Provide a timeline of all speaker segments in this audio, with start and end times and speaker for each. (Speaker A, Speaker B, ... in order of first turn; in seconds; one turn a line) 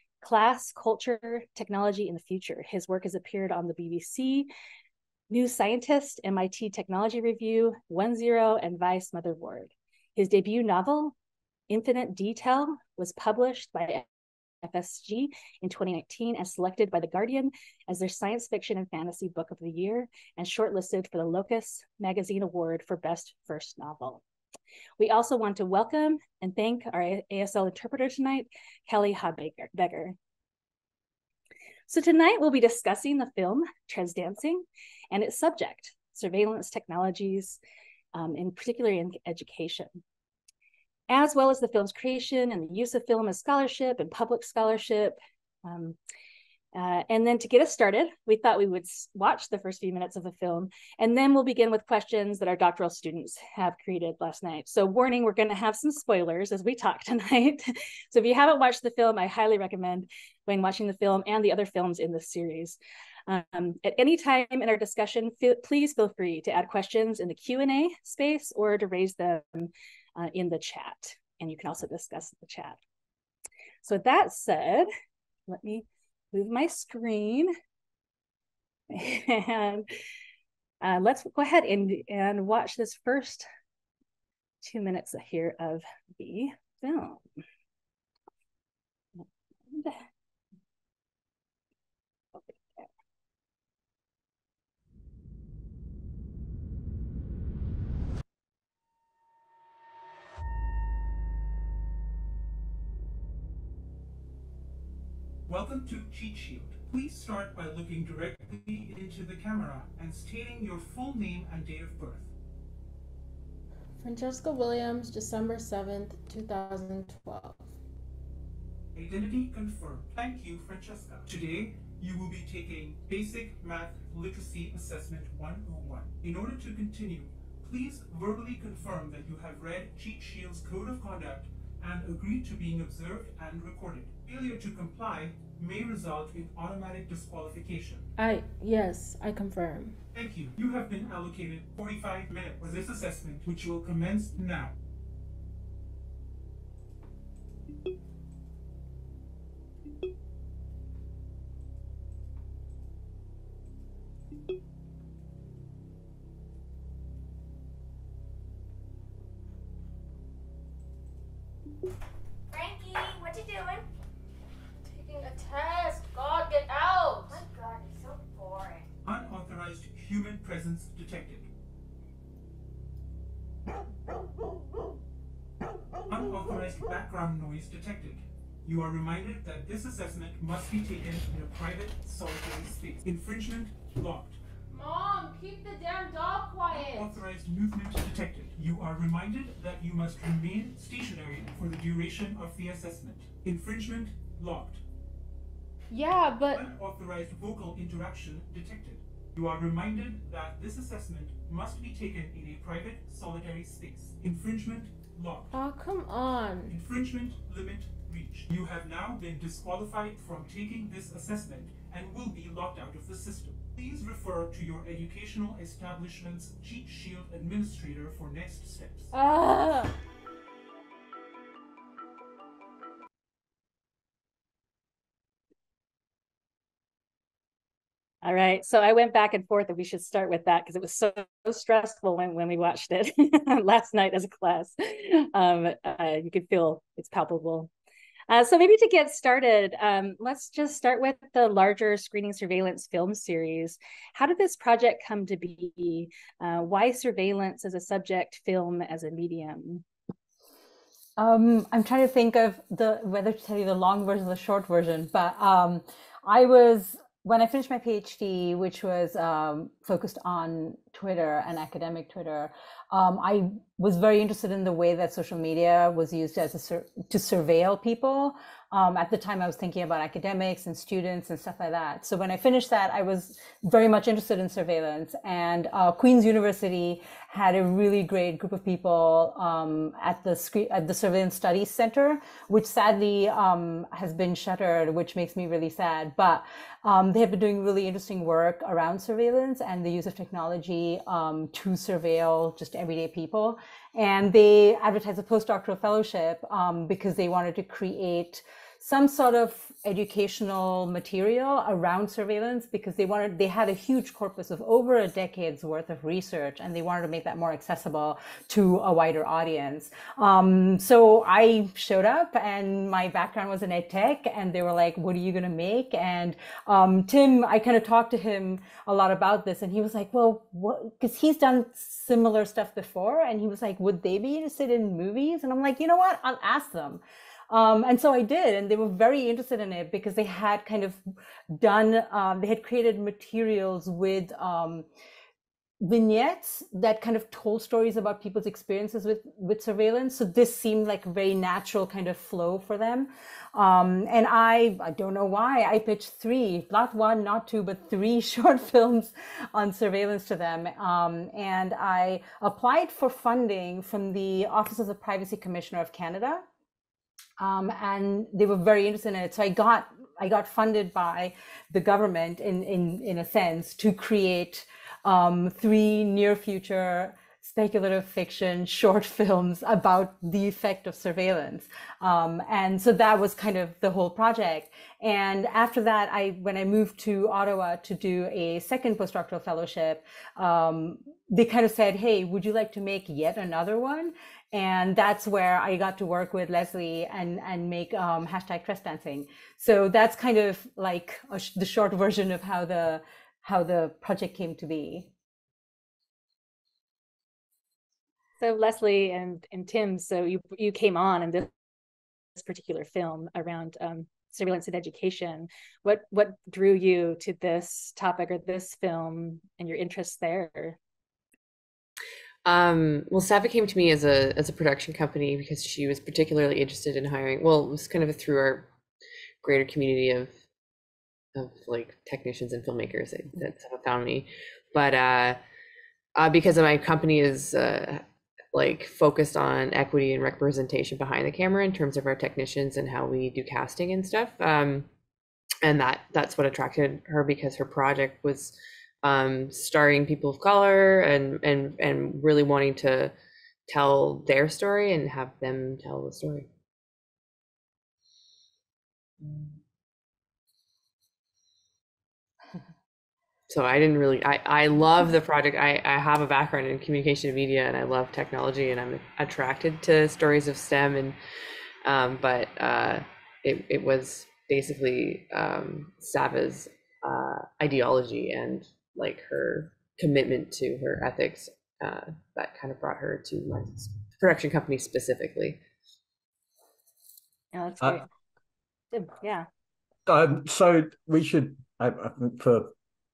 Speaker A: 0.2-4.5
Speaker A: 5.3-11.1
Speaker A: 11.7-14.1
Speaker A: 14.6-24.2
Speaker A: 25.0-30.2
Speaker A: 31.9-37.6
Speaker A: 38.1-39.9
Speaker A: 41.1-46.0
Speaker A: 46.7-72.8
Speaker A: 73.8-74.9
Speaker A: 75.5-77.5
Speaker A: 78.9-79.9
Speaker A: 80.8-83.5
Speaker A: 84.6-87.2
Speaker A: 89.2-90.0
Speaker A: 92.4-92.9
Speaker B: 105.5-112.3
Speaker C: 114.0-117.7
Speaker B: 118.9-138.1
Speaker C: 138.2-140.0
Speaker B: 140.1-144.8
Speaker C: 162.5-163.8
Speaker C: 164.8-168.9
Speaker B: 169.1-171.5
Speaker B: 176.1-184.4
Speaker C: 184.7-187.2
Speaker B: 186.7-194.8
Speaker C: 195.9-196.6
Speaker B: 196.5-205.5
Speaker C: 205.5-206.8
Speaker B: 206.7-219.1
Speaker C: 219.1-219.9
Speaker A: 228.2-237.7
Speaker A: 238.3-249.8
Speaker D: 251.2-331.0
Speaker D: 331.5-334.9
Speaker D: 335.8-356.4
Speaker D: 357.4-395.1
Speaker A: 398.4-401.5
Speaker A: 402.4-410.8
Speaker E: 412.4-418.7
Speaker E: 419.4-420.3
Speaker E: 421.3-425.4
Speaker E: 426.1-434.9
Speaker E: 435.6-443.1
Speaker E: 443.7-446.5
Speaker E: 453.5-461.2
Speaker E: 461.8-475.6
Speaker A: 477.5-478.1
Speaker A: 478.9-479.5
Speaker F: 480.1-482.7